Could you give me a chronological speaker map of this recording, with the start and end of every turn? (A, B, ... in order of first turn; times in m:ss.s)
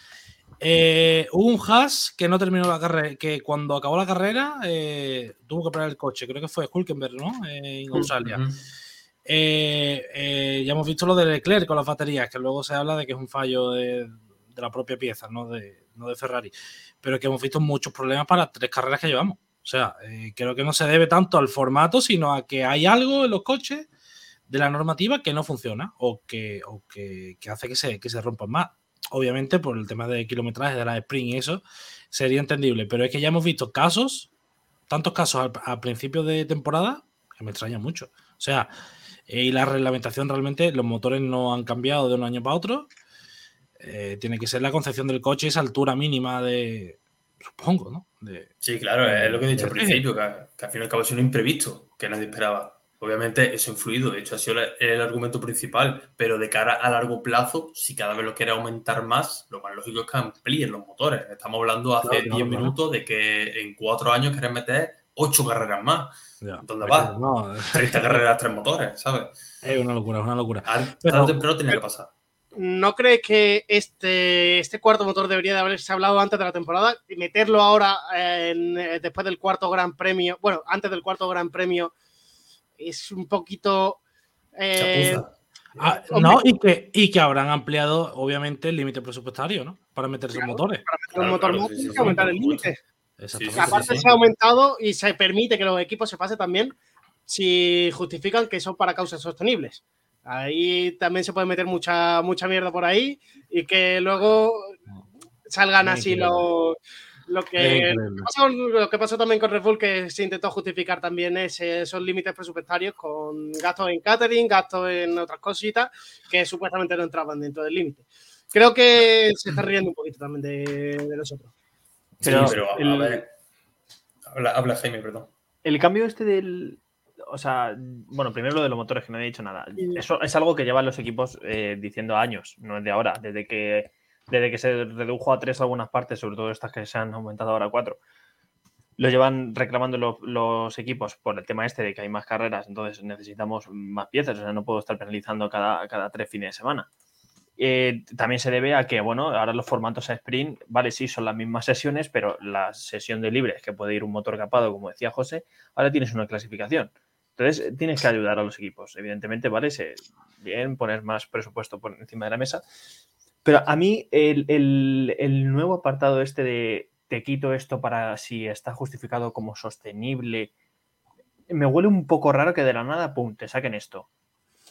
0:00.6-0:08.4 A
0:08.0-0:08.6 B
0:09.2-0:23.9 A
0:24.5-0:34.3 A
0:34.9-0:38.7 A
0:39.3-0:42.9 A
0:43.8-0:48.5 A
0:48.6-1:07.1 B
0:49.0-0:50.0 A
1:02.0-1:02.7 A
1:06.4-1:08.2 A
1:07.7-1:09.4 B
1:09.6-1:11.4 A
1:10.6-1:12.1 B
1:12.6-1:21.9 C
1:22.8-1:24.0 C
1:24.6-1:25.2 C
1:24.7-1:25.9 B
1:25.8-1:30.8 A
1:26.1-1:26.4 C
1:30.3-1:32.8 C
1:31.1-1:32.7 B
1:32.0-1:32.4 A
1:33.2-1:34.2 A
1:33.3-1:34.0 B
1:33.6-1:36.7 C
1:37.3-1:44.8 C
1:45.5-1:46.8 C
1:45.8-1:46.4 A
1:47.3-2:01.5 C
1:47.6-1:48.3 A
2:02.2-2:02.6 A
2:02.2-2:03.2 D
2:02.2-2:03.3 B
2:04.2-2:05.3 B
2:05.6-2:18.0 D
2:19.0-2:26.9 D
2:27.6-2:42.6 D
2:43.4-2:50.5 D
2:51.5-2:54.1 D